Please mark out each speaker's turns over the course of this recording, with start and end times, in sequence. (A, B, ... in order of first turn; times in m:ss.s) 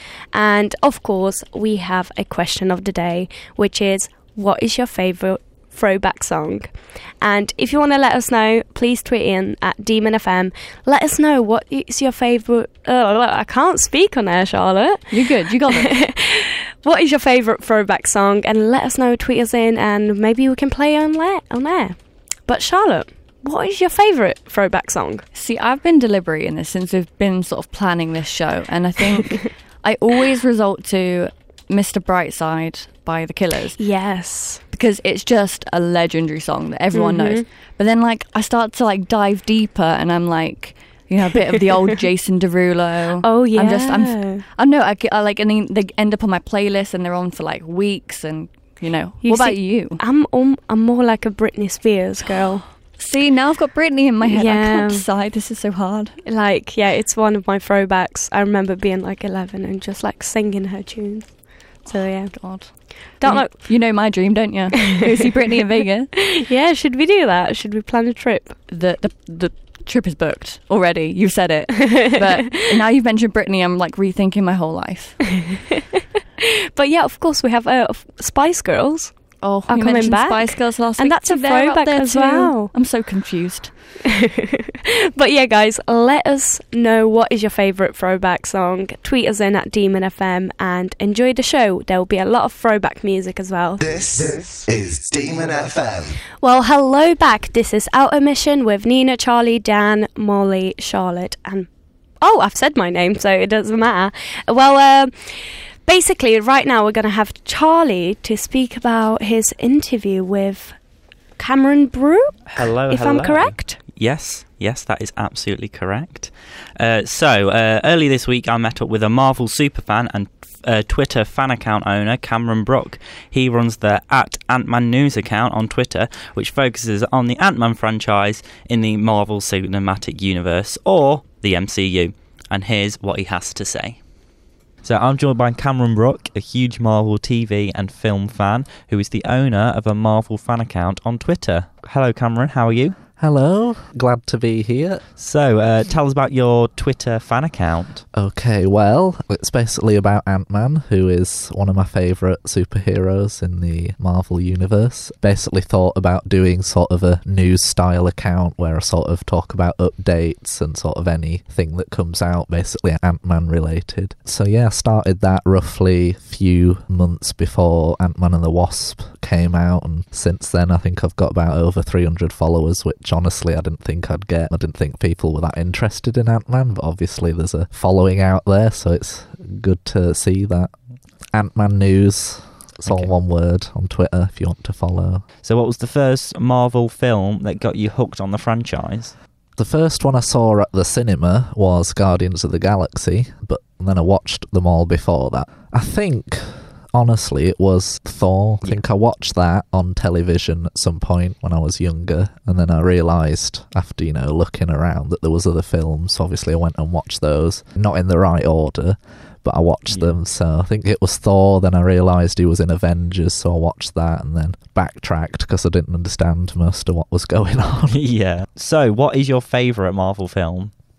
0:00.3-0:06.7 A
0:07.2-0:25.2 A
0:15.1-0:15.9 B
0:25.3-0:33.8 B
0:33.8-0:34.6 A
0:34.7-0:50.0 B
0:36.9-0:37.4 A
0:43.2-0:44.4 A
0:49.2-0:52.6 A
0:53.0-0:56.2 B
0:54.2-0:55.0 A
0:56.2-1:03.7 A
1:02.3-1:06.1 B
1:06.1-1:08.6 A
1:08.7-1:15.2 B
1:11.8-1:12.6 A
1:16.4-1:19.1 A
1:19.4-1:23.7 B
1:19.7-1:22.7 A
1:24.1-1:33.8 A
1:33.8-1:36.2 C
1:36.4-1:41.7 A
1:42.2-1:50.7 A
1:51.4-1:53.8 A
1:52.5-2:14.0 D
2:14.8-2:23.0 D
2:23.2-2:25.0 E
2:25.2-2:28.0 D
2:28.1-3:00.7 E
3:01.3-3:05.2 E
3:05.4-3:09.1 D
3:09.6-3:38.0 E
3:37.9-3:40.7 D